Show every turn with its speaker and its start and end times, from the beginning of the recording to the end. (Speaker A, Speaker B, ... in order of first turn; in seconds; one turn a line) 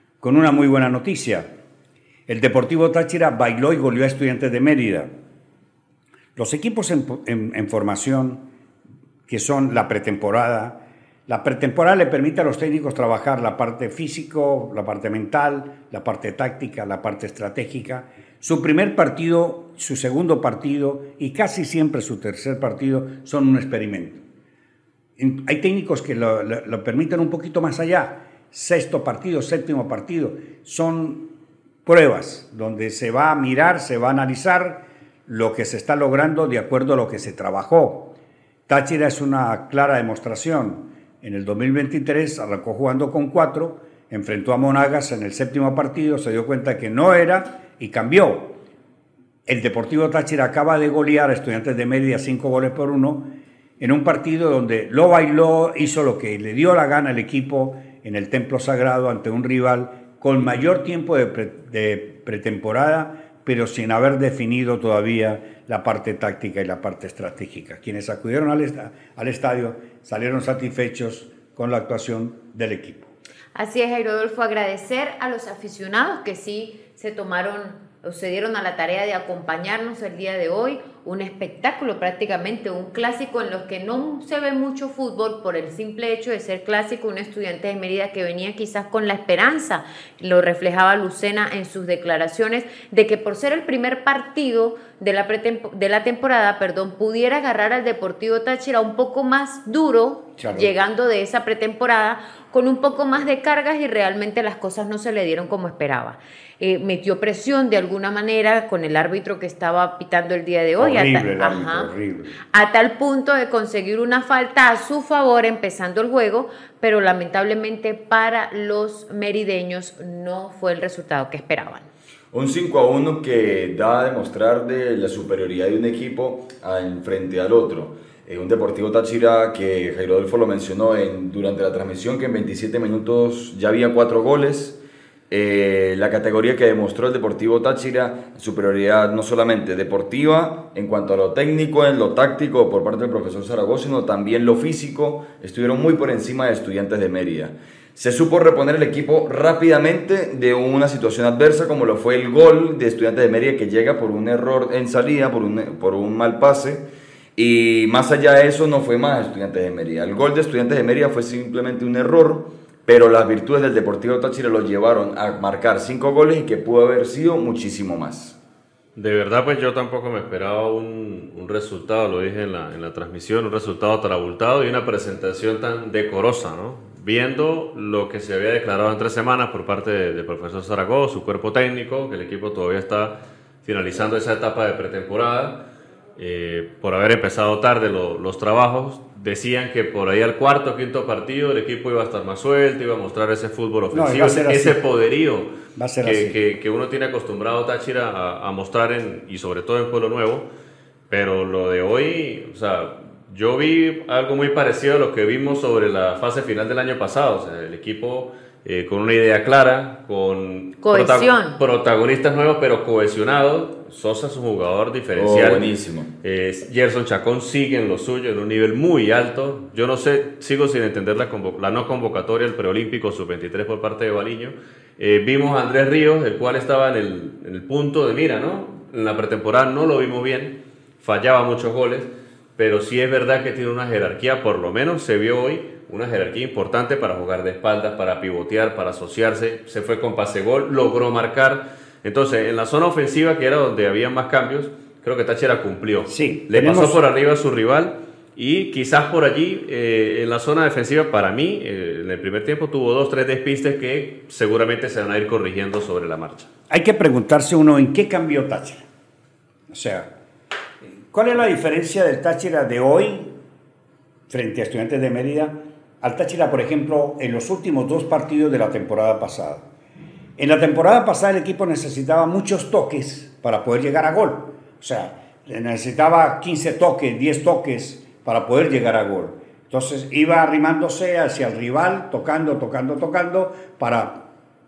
Speaker A: 0.2-1.5
Speaker A: 2.3-5.1
Speaker A: 6.3-8.4
Speaker A: 9.3-24.2
Speaker A: 25.2-31.2
Speaker A: 31.9-38.1
Speaker A: 38.7-48.5
Speaker A: 49.5-53.3
Speaker A: 53.8-73.1
Speaker B: 73.5-111.9
Speaker A: 100.4-100.7
Speaker A: 110.8-112.3
Speaker B: 112.5-121.9
Speaker C: 122.3-134.8
Speaker C: 135.3-156.8
Speaker C: 157.4-168.4
Speaker D: 168.9-185.7
Speaker D: 186.2-200.5
Speaker A: 193.9-194.8
Speaker A: 195.8-196.4
Speaker D: 201.1-215.7
Speaker B: 210.8-211.6
Speaker C: 215.2-216.1
Speaker D: 216.2-256.5
Speaker A: 246.1-247.0
Speaker A: 256.7-258.9
Speaker A: 259.7-260.1
Speaker A: 261.1-263.3
Speaker A: 264.3-269.6
Speaker A: 270.4-284.2